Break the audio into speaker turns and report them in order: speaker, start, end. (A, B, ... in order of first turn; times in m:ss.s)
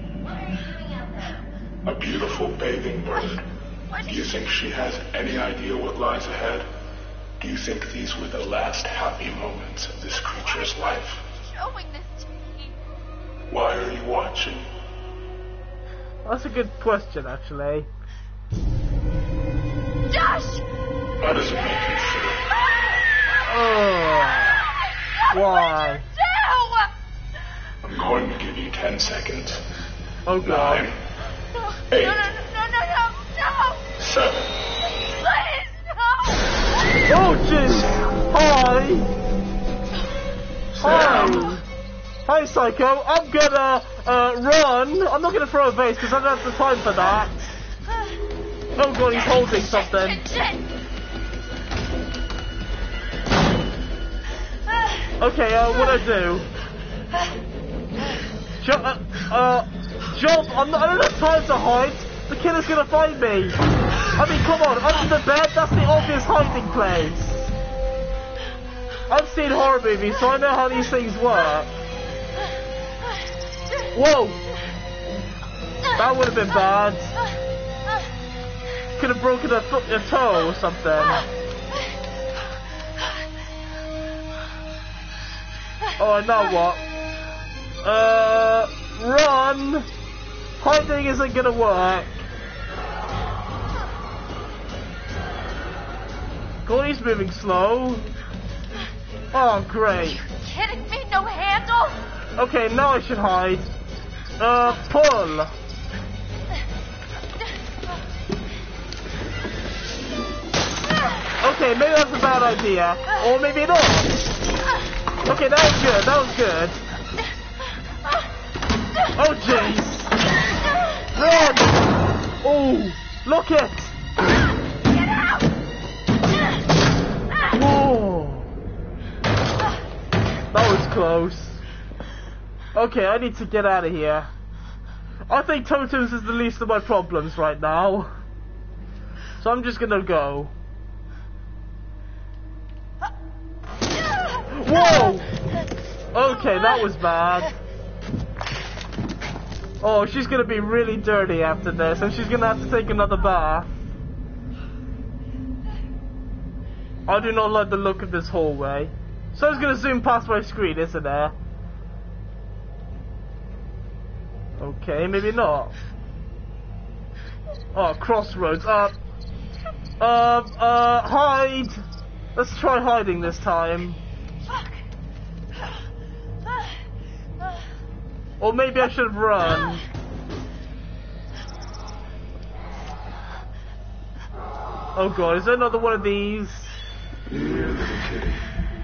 0:00.2-0:01.4 A
0:01.8-0:03.4 B
0:03.9-0:04.4 A
0:04.0-0:06.7 B
0:07.4-0:11.2 B
0:10.4-0:12.7 A
0:13.5-0:14.6 B
0:16.2-0:17.9 C
0:20.1-0:20.6 A
0:21.2-0:22.5 B
0:23.4-0:26.9 A
0:23.4-0:24.5 C
0:25.3-0:26.0 C
0:27.8-0:29.6 B
0:30.2-0:30.9 C
0:30.4-0:31.0 B
0:31.5-0:33.9 A
0:31.9-0:32.2 B
0:34.0-0:34.5 B
0:34.9-0:36.5 A
0:37.1-0:39.1 C
0:40.8-0:41.5 B
0:40.8-0:41.6 C
0:42.3-0:47.3 C
0:48.8-0:50.2 C
0:49.1-0:50.7 A
0:55.2-0:56.5 C
0:58.6-1:03.6 C
1:04.1-1:07.5 C
1:09.1-1:11.7 C
1:13.9-1:14.4 C
1:15.9-1:17.1 C
1:19.0-1:21.2 C
1:21.0-1:21.3 A
1:26.0-1:26.8 C
1:27.8-1:29.9 C
1:30.6-1:32.2 C
1:36.6-1:38.0 C
1:39.3-1:40.2 C
1:40.2-1:42.0 A
1:42.4-1:43.7 C
1:44.4-1:45.5 C
1:51.4-1:54.1 C
1:55.2-1:56.8 C
1:59.1-2:00.1 C
2:01.1-2:01.8 C
2:02.4-2:03.9 C
2:07.5-2:08.5 C
2:10.5-2:11.6 C
2:12.7-2:14.3 C
2:15.3-2:18.2 C
2:19.4-2:20.5 C
2:24.3-2:25.2 A
2:24.5-2:25.3 C
2:26.1-2:27.5 C
2:26.4-2:26.8 A
2:29.8-2:33.7 C
2:37.1-2:41.3 C
2:44.6-2:45.7 C
2:47.7-2:48.9 C
2:50.0-2:51.8 C
2:52.4-2:54.0 C
2:58.4-2:59.8 C
3:04.9-3:06.7 C
3:07.3-3:08.4 B